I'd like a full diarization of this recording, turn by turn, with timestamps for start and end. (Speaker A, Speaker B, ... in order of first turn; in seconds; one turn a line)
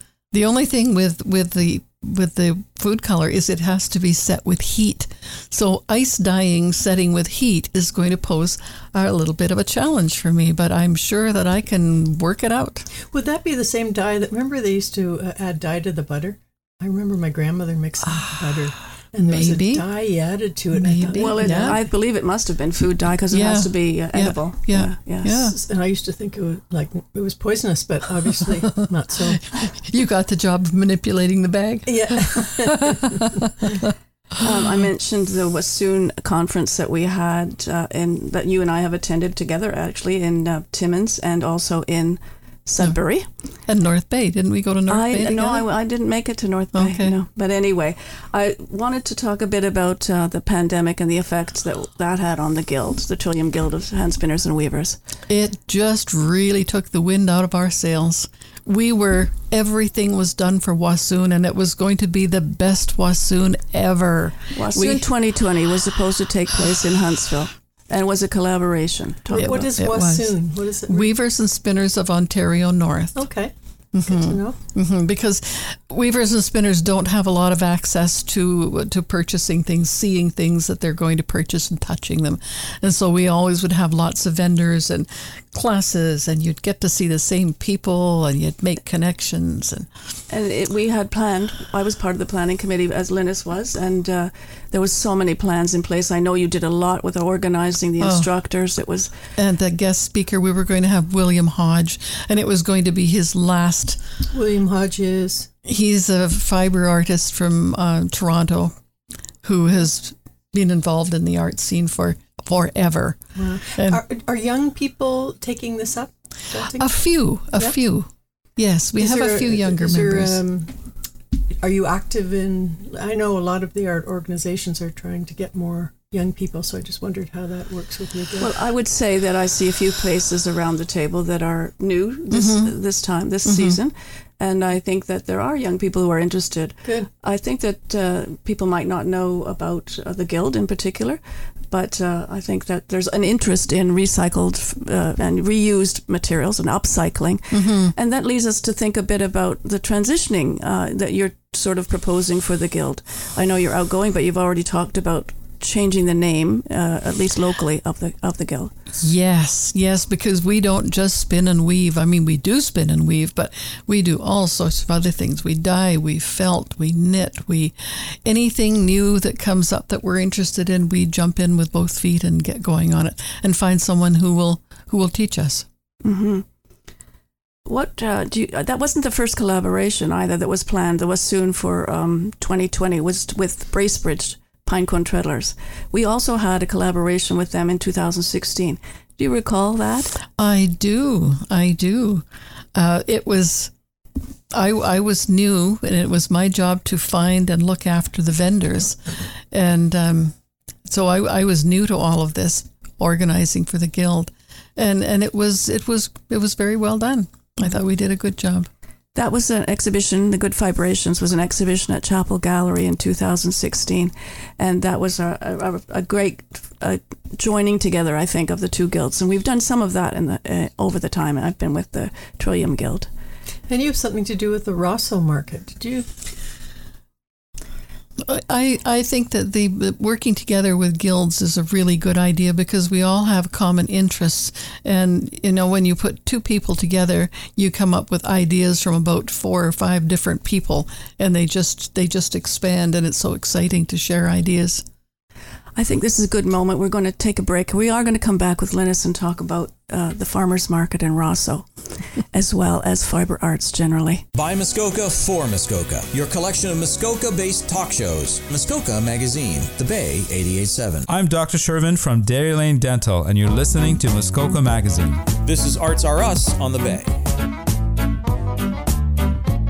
Speaker A: 0.3-12.9
Speaker B: 13.1-21.8
Speaker A: 18.1-18.6
Speaker A: 19.2-19.9
Speaker A: 20.7-21.8
Speaker C: 21.1-25.4
Speaker A: 23.3-25.6
Speaker B: 25.4-29.4
Speaker A: 29.3-33.9
Speaker B: 31.9-33.8
Speaker C: 34.4-43.3
Speaker A: 43.7-45.7
Speaker C: 44.9-55.0
Speaker A: 46.7-47.1
Speaker A: 55.3-65.1
Speaker C: 64.5-69.7
Speaker A: 69.3-70.3
Speaker B: 69.3-71.1
Speaker A: 70.9-73.3
Speaker B: 73.1-73.5
Speaker A: 73.9-89.9
Speaker B: 74.0-74.6
Speaker C: 90.3-99.1
Speaker A: 98.0-98.3
Speaker A: 99.3-104.0
Speaker B: 104.3-105.5
Speaker A: 105.6-108.7
Speaker A: 109.4-113.2
Speaker B: 113.3-116.9
Speaker A: 113.7-114.0
Speaker A: 116.6-120.4
Speaker B: 119.0-120.7
Speaker B: 121.6-128.5
Speaker C: 128.4-158.7
Speaker A: 132.3-132.7
Speaker A: 133.4-133.8
Speaker B: 136.8-137.1
Speaker A: 147.5-147.9
Speaker A: 159.0-175.7
Speaker C: 176.0-176.4
Speaker C: 177.7-190.2
Speaker A: 190.3-193.7
Speaker A: 194.5-200.3
Speaker A: 200.8-208.7
Speaker C: 209.1-223.1
Speaker B: 223.7-226.1
Speaker A: 228.2-244.8
Speaker C: 245.8-254.2
Speaker D: 254.3-261.1
Speaker E: 261.1-265.3
Speaker D: 265.4-267.2